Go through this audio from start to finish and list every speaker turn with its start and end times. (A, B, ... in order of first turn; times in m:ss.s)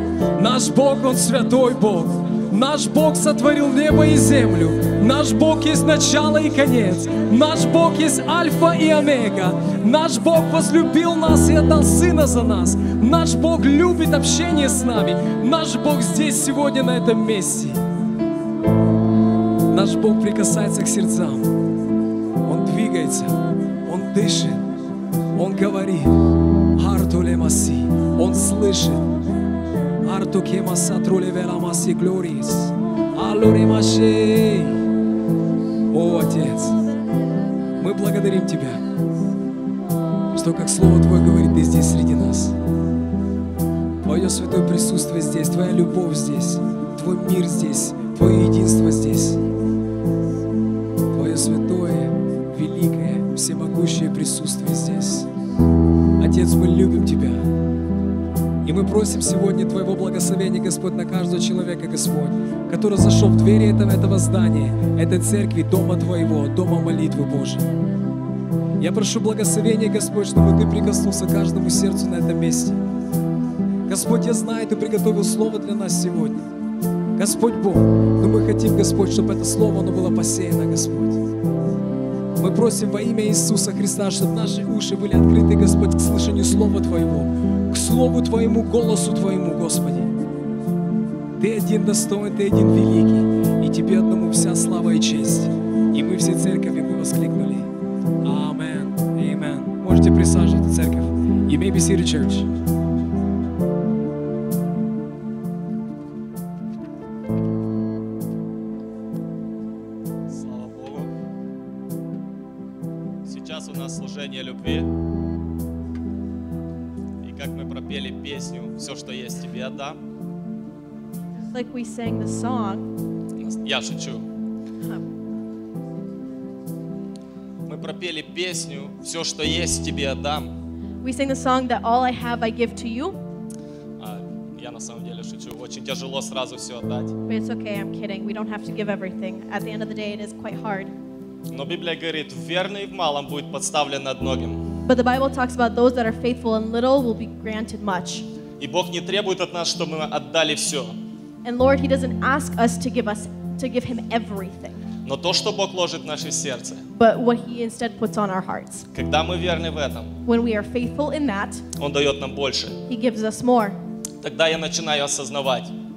0:00.4-0:17.8 A
0:19.7-0:21.5 A
0:22.4-0:24.7 A
0:25.3-0:26.2 A
0:26.7-0:29.0 A
0:30.0-0:34.8 A
0:35.9-0:36.8 A
0:37.8-0:38.8 A
0:40.3-0:42.6 A
0:44.0-0:49.4 A
0:51.1-0:55.3 A
0:56.2-0:57.5 A
0:58.6-1:07.7 A
1:08.8-1:12.8 A
1:13.9-1:16.5 A
1:17.2-1:21.2 A
1:22.4-1:30.1 A
1:31.4-1:37.7 A
1:38.2-1:42.5 A
1:50.3-1:51.1 B
1:53.2-1:54.9 B
1:57.2-2:00.0 B
2:01.5-2:02.9 C
2:03.4-2:04.2 B
2:07.6-2:10.5 B
2:11.0-2:13.2 C
2:14.0-2:17.1 B
2:17.3-2:20.9 C
2:21.5-2:24.6 B
2:24.8-2:28.2 C
2:28.6-2:31.0 B
2:31.4-2:34.8 C
2:35.0-2:36.8 B
2:36.9-2:38.9 C
2:38.9-2:40.1 B
2:40.2-2:41.6 C
2:41.8-2:42.8 B
2:42.9-2:43.8 C
2:44.2-2:45.7 B